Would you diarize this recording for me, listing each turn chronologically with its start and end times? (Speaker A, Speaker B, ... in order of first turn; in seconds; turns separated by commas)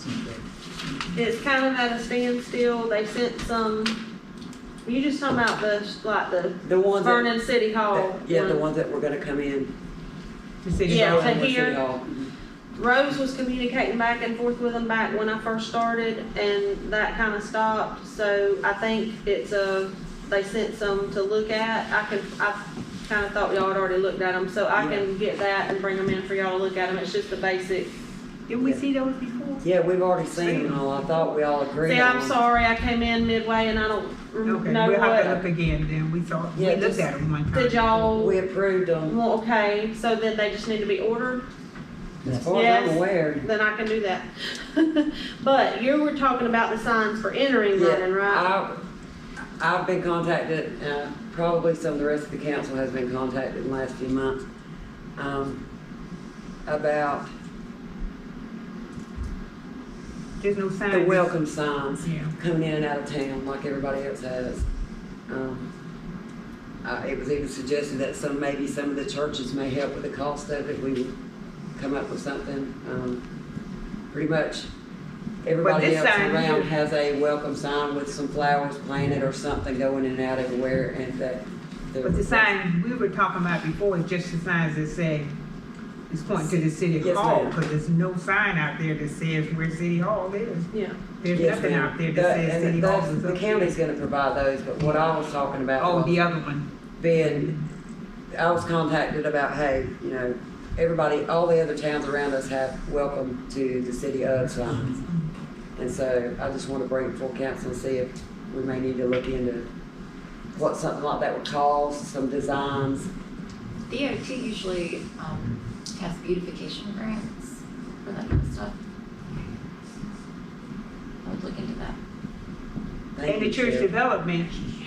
Speaker A: 1.1-4.0, Speaker A: 4.8-8.6, Speaker B: 6.6-7.3, Speaker B: 7.9-9.7, Speaker C: 10.6-11.4, Speaker B: 10.8-12.3, Speaker A: 10.8-11.8, Speaker A: 12.7-27.9, Speaker B: 24.7-25.1, Speaker C: 28.5-29.6, Speaker B: 29.6-32.4, Speaker C: 30.3-30.8, Speaker A: 31.8-35.4, Speaker C: 34.4-37.8, Speaker B: 36.5-37.1, Speaker A: 37.5-38.4, Speaker B: 37.9-39.2, Speaker A: 39.1-41.4, Speaker B: 42.2-43.5, Speaker A: 42.5-48.5, Speaker B: 47.7-48.8, Speaker B: 49.6-54.4, Speaker B: 55.2-55.6, Speaker B: 56.6-57.3, Speaker C: 60.4-61.3, Speaker B: 60.9-64.6, Speaker C: 62.0-62.3, Speaker B: 65.3-65.7, Speaker B: 66.8-71.1, Speaker B: 71.8-73.2, Speaker B: 74.1-74.7, Speaker B: 75.4-82.5, Speaker C: 75.6-76.7, Speaker C: 82.0-85.3, Speaker C: 86.1-93.7, Speaker B: 86.3-87.6, Speaker A: 90.7-91.0, Speaker B: 91.3-96.2, Speaker C: 94.8-95.2, Speaker C: 95.8-97.6, Speaker B: 97.0-97.5, Speaker B: 98.3-105.0, Speaker B: 105.8-109.7, Speaker B: 110.5-113.1, Speaker D: 113.9-117.5, Speaker D: 118.0-118.7, Speaker D: 121.2-121.9, Speaker B: 123.1-123.9, Speaker C: 123.2-124.5